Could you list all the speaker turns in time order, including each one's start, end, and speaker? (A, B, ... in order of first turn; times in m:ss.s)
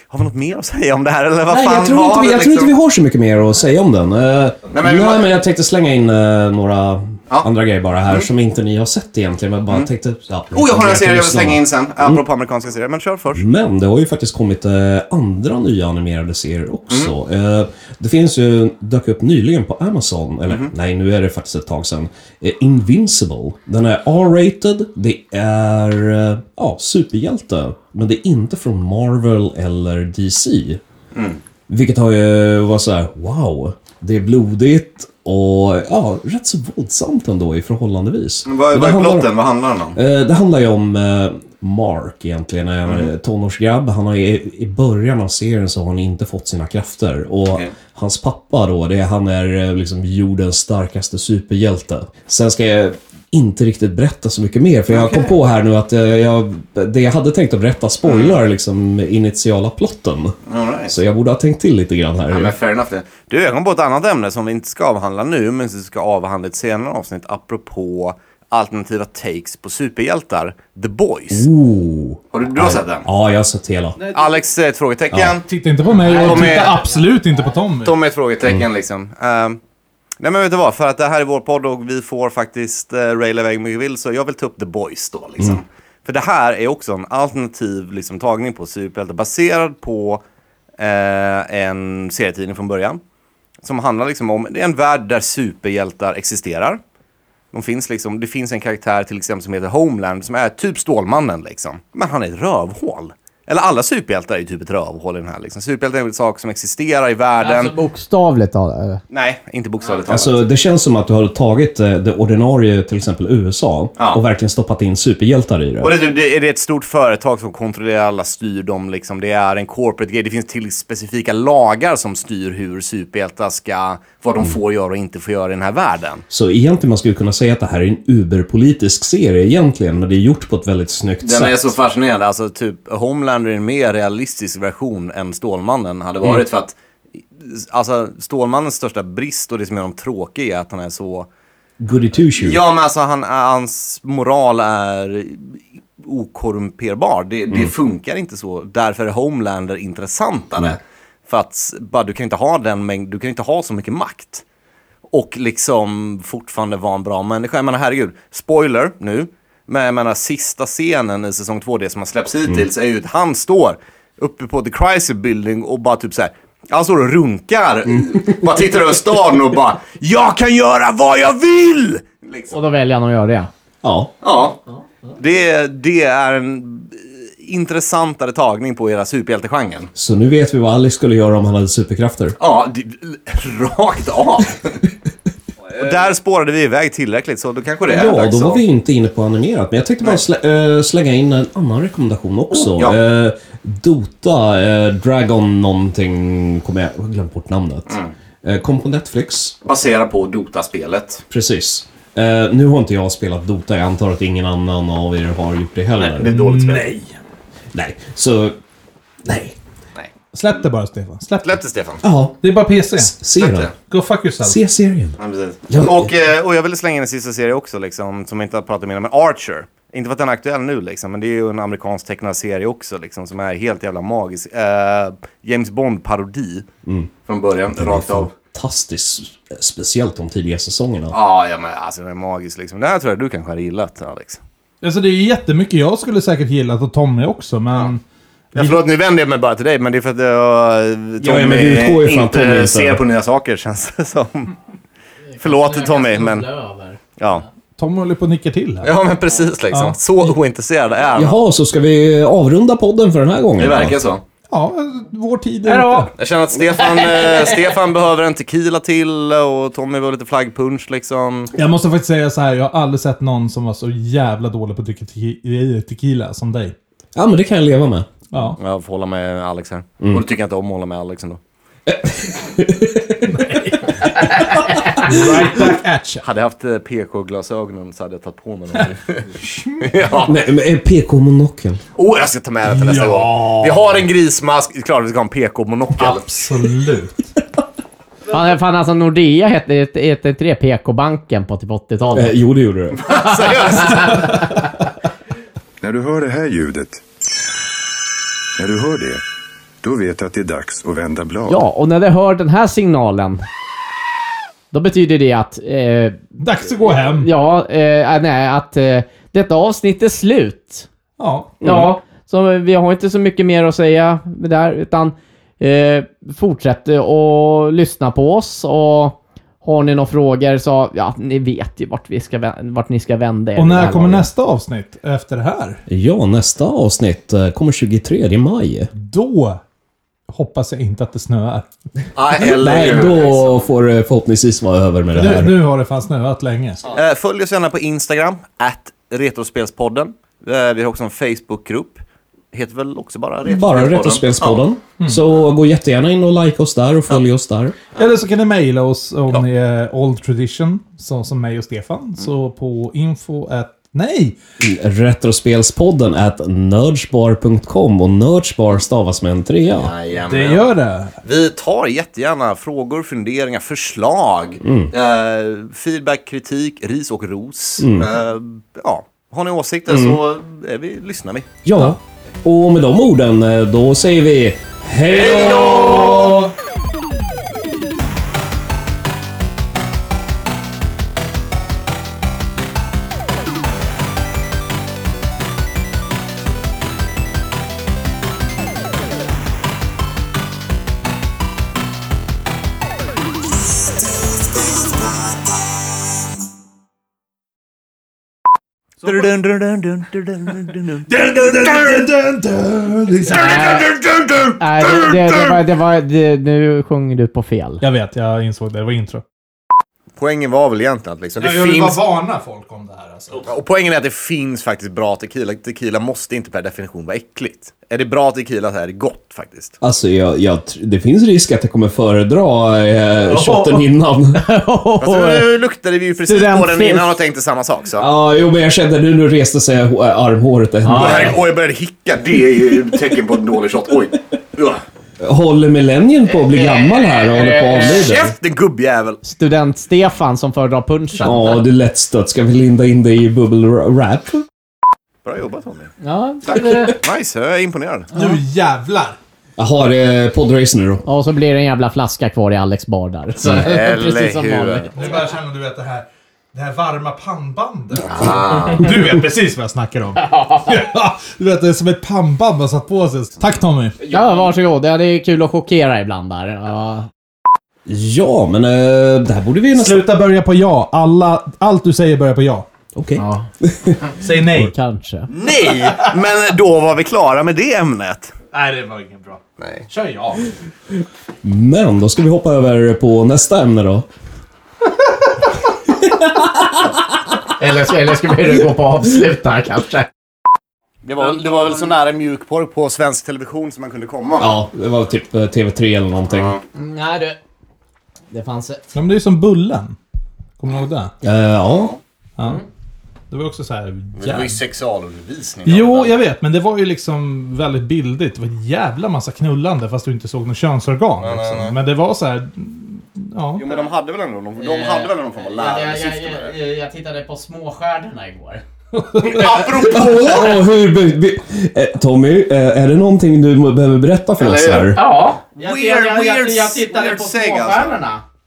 0:00.1-0:02.7 A
0:01.5-0:12.2 B
0:04.7-0:05.3 A
0:10.5-0:13.4 A
0:13.4-0:30.8 B
0:31.1-0:31.4 A
0:31.7-0:39.4 B
0:38.5-0:40.0 A
0:39.9-1:02.6 B
0:54.9-0:55.4 A
0:58.0-0:58.4 A
1:00.5-1:01.0 A
1:02.3-1:11.5 A
1:11.3-1:14.0 B
1:12.3-1:13.1 A
1:14.1-1:15.5 A
1:15.1-1:15.4 B
1:15.5-1:17.9 C
1:16.0-1:16.8 A
1:16.0-1:17.5 D
1:17.8-1:19.6 A
1:20.2-1:30.2 A
1:30.8-1:33.0 A
1:33.6-1:36.8 A
1:37.5-1:47.7 A
1:47.4-1:49.0 D
1:49.1-1:50.5 A
1:50.1-1:56.0 B
1:55.8-2:06.2 A
2:06.3-2:11.7 B
2:11.2-2:16.8 A
2:17.4-2:21.3 A
2:21.8-2:22.6 B
2:22.2-2:34.4 A
2:35.1-2:52.6 A
2:47.9-2:48.5 B
2:52.5-2:53.5 D
2:53.8-2:54.1 B
2:54.2-2:54.6 A
2:55.2-2:59.9 A
3:00.0-3:02.4 B
3:02.4-3:04.8 A
3:05.7-3:08.6 A
3:07.9-3:19.6 B
3:12.6-3:13.0 A
3:19.6-3:21.2 A
3:21.3-3:26.3 B
3:26.0-3:26.9 A
3:26.2-3:27.2 C
3:27.7-3:28.6 B
3:29.2-3:29.6 B
3:30.3-3:31.6 C
3:31.4-3:32.0 A
3:32.0-3:32.4 B
3:32.4-3:33.2 C
3:32.9-3:33.7 B
3:33.4-3:33.7 A
3:33.8-3:34.6 C
3:34.4-3:35.2 B
3:35.2-3:46.7 A
3:35.7-3:36.1 B
3:47.3-3:48.3 A
3:47.7-3:51.2 B
3:51.1-3:54.4 A
3:54.8-3:58.0 C
3:58.5-3:58.8 C
3:58.5-4:04.6 A
4:01.2-4:03.0 B
4:05.3-4:07.0 D
4:05.4-4:06.5 A
4:07.2-4:07.4 A
4:07.8-4:08.9 C
4:08.8-4:11.4 A
4:09.7-4:10.0 C
4:11.2-4:14.0 B
4:13.6-4:14.2 A
4:14.5-4:16.1 C
4:15.6-4:16.1 D
4:16.2-4:21.5 A
4:16.7-4:17.6 D
4:21.6-4:26.8 C
4:27.2-4:28.1 B
4:28.3-4:28.6 C
4:28.6-4:31.4 A
4:31.9-4:33.8 B
4:33.2-4:36.2 C
4:35.0-4:35.6 B
4:36.2-4:40.4 A
4:39.5-4:39.8 C
4:40.2-4:41.8 B
4:42.0-4:46.5 A
4:42.7-4:44.0 C
4:46.0-4:47.3 C
4:48.3-4:52.4 D
4:52.1-4:53.5 B
4:53.0-4:54.2 A
4:53.8-4:54.5 D
4:55.8-4:57.0 E
4:58.6-4:59.2 E
4:59.8-5:01.7 E
5:01.5-5:03.4 D
5:04.7-5:10.9 D
5:06.4-5:07.3 C
5:11.2-5:11.6 C
5:11.6-5:11.9 B
5:11.6-5:24.3 D
5:23.6-5:25.8 C
5:25.9-5:28.9 B
5:28.9-5:29.6 C
5:30.3-5:31.7 C
5:32.2-5:33.7 A
5:32.4-5:35.6 B
5:35.1-5:36.8 C
5:36.9-5:44.6 A
5:43.4-5:47.8 B
5:48.0-5:54.4 C
5:54.6-5:59.9 B
5:59.8-6:00.7 A
6:00.2-6:01.2 C
6:01.2-6:11.5 A
6:04.6-6:04.9 B
6:07.8-6:08.1 B
6:09.9-6:10.2 B
6:11.6-6:16.5 B
6:15.1-6:16.5 A
6:39.0-6:41.1 A
6:39.0-6:39.3 C
6:40.7-6:43.9 C
6:43.2-6:45.6 A
6:43.3-6:43.9 D
6:44.6-6:47.8 D
6:47.8-6:49.2 C
6:50.2-6:52.0 A
6:51.4-6:53.5 C
6:53.4-6:59.8 A
6:59.8-7:04.5 B
7:03.2-7:05.5 D
7:05.0-7:08.1 A
7:06.3-7:07.2 D
7:08.0-7:11.4 B
7:10.8-7:11.4 D
7:11.0-7:14.8 A
7:15.2-7:18.3 B
7:16.3-7:18.0 D
7:17.8-7:19.2 A
7:19.2-7:21.6 D
7:21.2-7:24.4 B
7:25.2-7:25.9 A
7:26.0-7:27.0 D
7:26.5-7:28.1 A
7:26.5-7:26.9 B
7:28.1-7:29.2 C
7:29.6-7:31.1 B
7:31.1-7:35.1 D
7:33.4-7:35.1 A
7:35.0-7:44.0 C
7:38.0-7:38.9 A
7:40.2-7:40.6 D
7:44.0-7:44.5 A
7:44.1-7:47.1 D
7:47.9-7:50.0 B
7:49.7-7:52.7 C
7:53.0-7:54.0 B
7:53.2-7:53.5 D
7:54.0-7:55.3 D
7:54.2-7:54.7 C
7:55.3-7:58.3 A
7:55.4-7:56.1 C
7:58.5-8:00.5 C
7:59.6-7:59.9 A
8:01.4-8:04.1 B
8:05.9-8:06.8 B
8:07.6-8:10.1 D
8:11.0-8:14.6 A
8:14.4-8:16.6 B
8:16.3-8:16.6 A
8:16.8-8:17.4 D
8:18.3-8:18.8 D
8:19.0-8:20.0 C
8:20.6-8:21.1 C
8:21.2-8:21.9 B
8:21.7-8:22.0 A
8:22.4-8:22.6 C
8:23.3-8:24.6 C
8:24.2-8:26.2 A
8:25.7-8:33.6 C
8:31.2-8:31.8 A
8:33.6-8:36.6 A
8:34.6-8:38.6 D
8:38.9-8:39.9 C
8:39.2-8:40.7 A
8:39.5-8:45.0 B
8:44.4-8:45.0 A
8:45.0-8:48.2 D
8:45.6-8:48.0 A